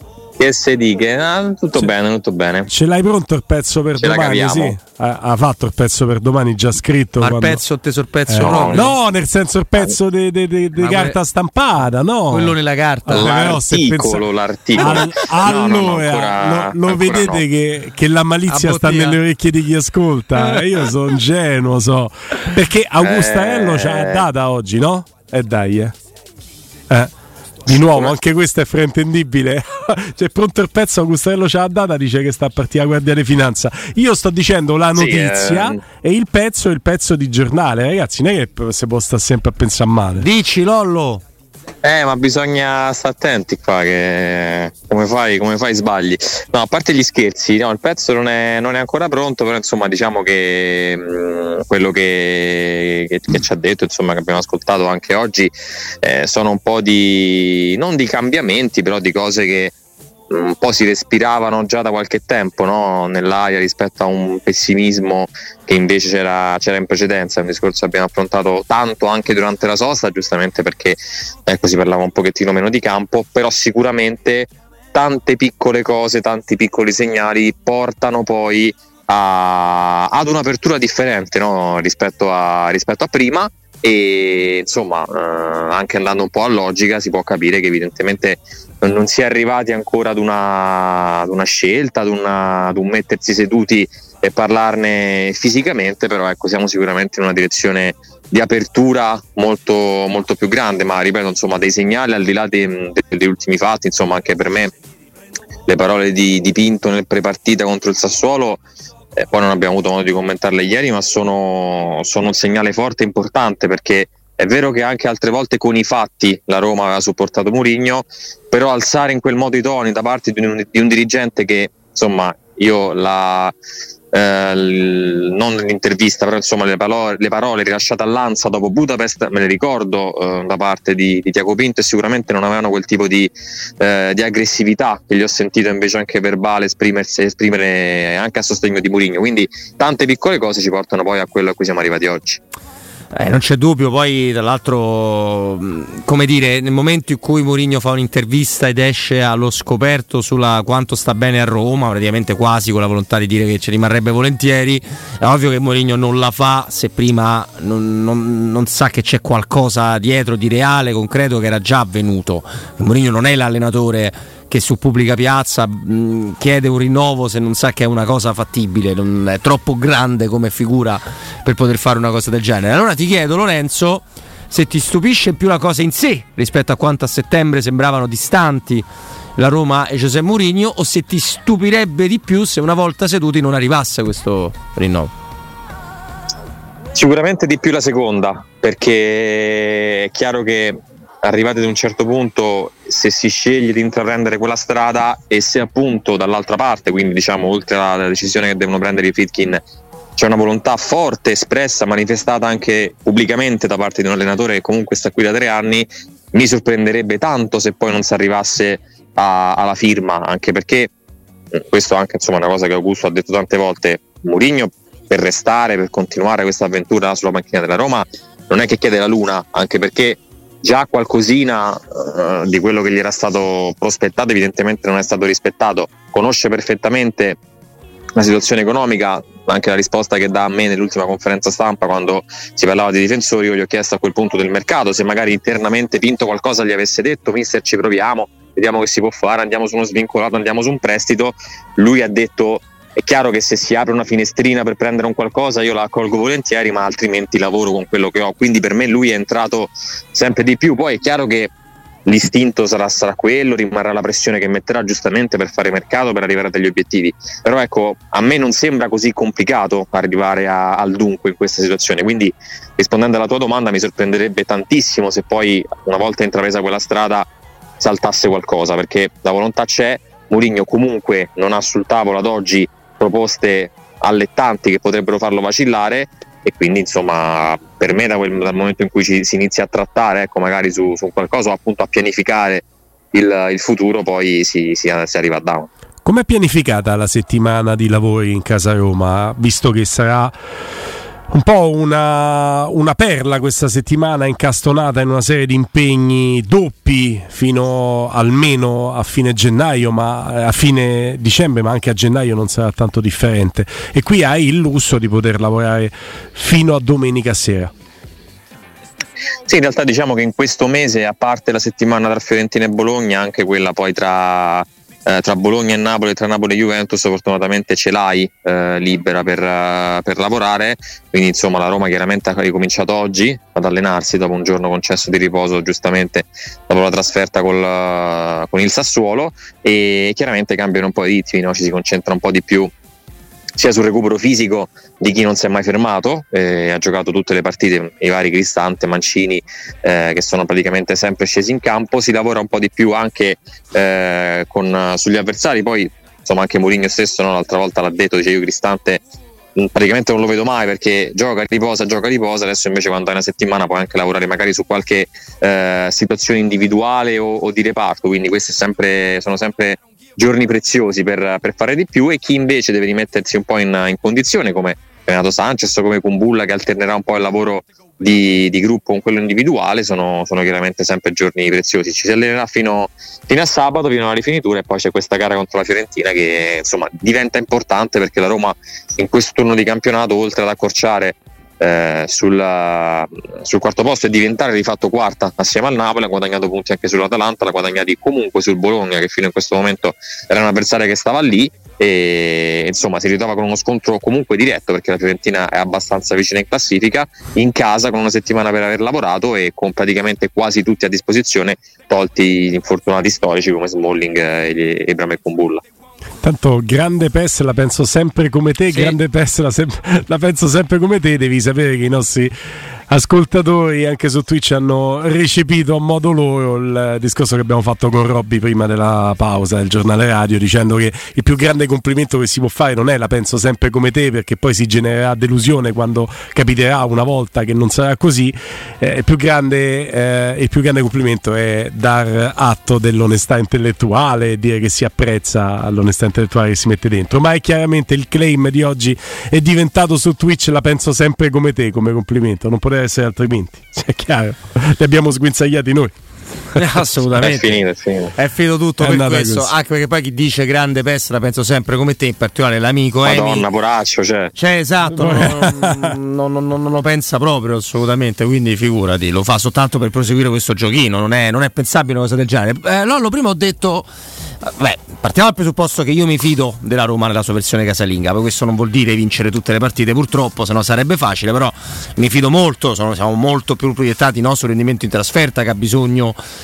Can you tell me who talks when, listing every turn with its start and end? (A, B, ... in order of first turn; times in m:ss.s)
0:00.4-0:02.7 A
0:02.7-0:07.6 B
0:04.0-0:04.8 A
0:07.2-0:09.0 C
0:08.3-0:14.2 B
0:08.4-0:08.9 A
0:10.7-0:11.2 C
0:12.3-0:13.4 C
0:13.1-0:17.4 A
0:14.8-0:25.9 B
0:18.5-0:19.2 C
0:20.4-0:20.8 C
0:23.0-0:24.2 A
0:27.6-0:40.3 B
0:27.7-0:28.2 A
0:34.9-0:35.8 A
0:40.2-0:41.2 C
0:41.8-0:55.5 A
0:56.0-0:59.7 A
1:00.3-1:44.7 A
1:45.7-1:48.6 A
1:49.2-2:03.5 A
2:04.1-2:22.4 A
2:23.1-2:58.8 C
2:59.4-3:05.1 C
3:06.9-3:19.6 A
3:20.2-3:30.9 A
3:31.7-3:47.4 A
3:48.2-4:11.5 A
4:12.0-4:27.3 A
4:27.8-4:45.7 A
4:46.0-4:50.3 B
4:51.3-5:07.7 B
5:09.4-5:32.7 A
5:33.6-5:49.0 A
5:49.6-6:45.6 A
6:46.2-6:52.3 B
6:48.7-6:49.0 C
6:52.9-7:25.9 B
7:26.5-7:27.6 C
7:27.2-7:28.1 A
7:28.1-7:33.4 C
7:28.8-7:29.5 B
7:33.0-7:34.3 A
7:34.4-7:43.9 C
7:34.9-7:36.0 B
7:44.4-7:56.2 C